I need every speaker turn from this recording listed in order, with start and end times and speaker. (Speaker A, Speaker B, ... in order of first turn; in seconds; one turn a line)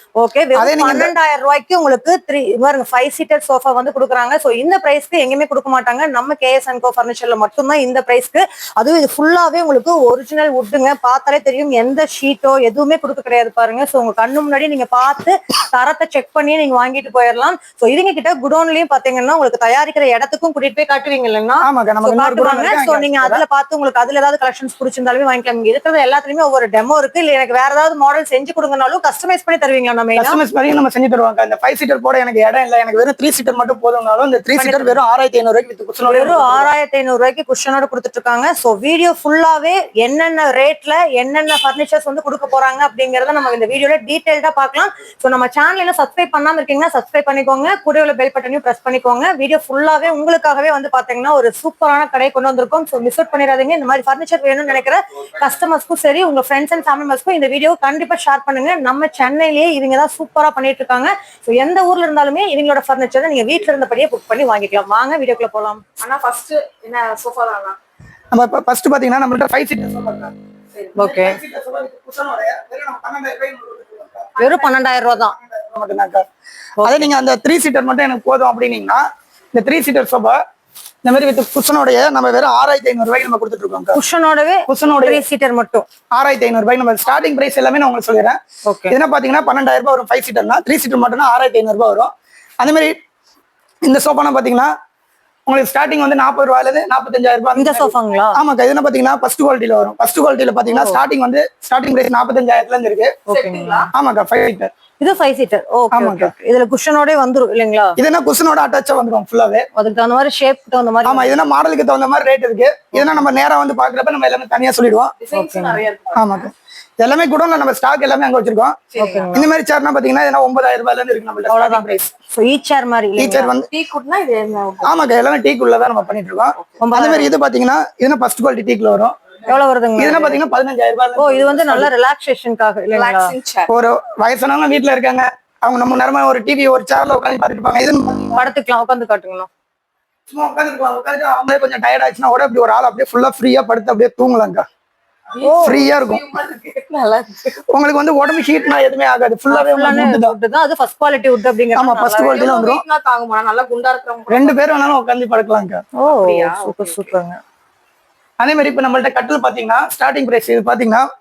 Speaker A: 0.2-30.4
Speaker B: 0.6-1.1
Speaker B: 21.6-23.4
Speaker B: 30.2-36.7
Speaker A: 34.6-35.0
Speaker A: 36.0-65.8
Speaker C: 66.0-67.8
Speaker B: 68.3-70.3
Speaker A: 71.0-71.4
Speaker B: 71.0-74.3
Speaker C: 74.4-74.8
Speaker A: 74.4-75.3
Speaker B: 75.4-76.2
Speaker A: 76.8-77.1
Speaker B: 76.8-79.0
Speaker B: 79.5-80.4
Speaker B: 81.0-84.0
Speaker A: 83.9-85.9
Speaker B: 84.7-85.2
Speaker B: 86.2-88.4
Speaker A: 88.7-89.0
Speaker B: 88.9-92.9
Speaker B: 93.8-94.7
Speaker B: 95.5-103.2
Speaker A: 97.5-98.4
Speaker A: 100.7-101.0
Speaker A: 103.3-103.9
Speaker C: 103.3-103.9
Speaker B: 103.9-104.7
Speaker A: 105.0-108.0
Speaker B: 105.9-106.3
Speaker B: 108.0-109.7
Speaker A: 109.8-111.4
Speaker B: 111.0-115.1
Speaker A: 112.9-113.3
Speaker C: 115.2-116.4
Speaker A: 115.3-115.8
Speaker B: 116.2-122.1
Speaker C: 118.9-119.3
Speaker A: 119.0-119.5
Speaker A: 121.5-123.5
Speaker B: 123.2-123.7
Speaker C: 123.7-125.1
Speaker B: 124.8-129.2
Speaker A: 126.8-127.3
Speaker A: 129.5-130.4
Speaker B: 130.0-131.9
Speaker A: 131.2-133.3
Speaker C: 132.9-133.7
Speaker B: 133.7-138.5
Speaker A: 138.3-139.5
Speaker B: 140.3-144.7
Speaker C: 145.3-147.6
Speaker A: 145.4-145.8
Speaker B: 145.6-146.2
Speaker B: 147.7-150.4
Speaker A: 149.5-152.4
Speaker B: 151.8-152.8
Speaker C: 152.3-154.6
Speaker B: 154.3-155.8
Speaker A: 156.0-157.4
Speaker C: 156.0-157.1
Speaker B: 158.4-161.1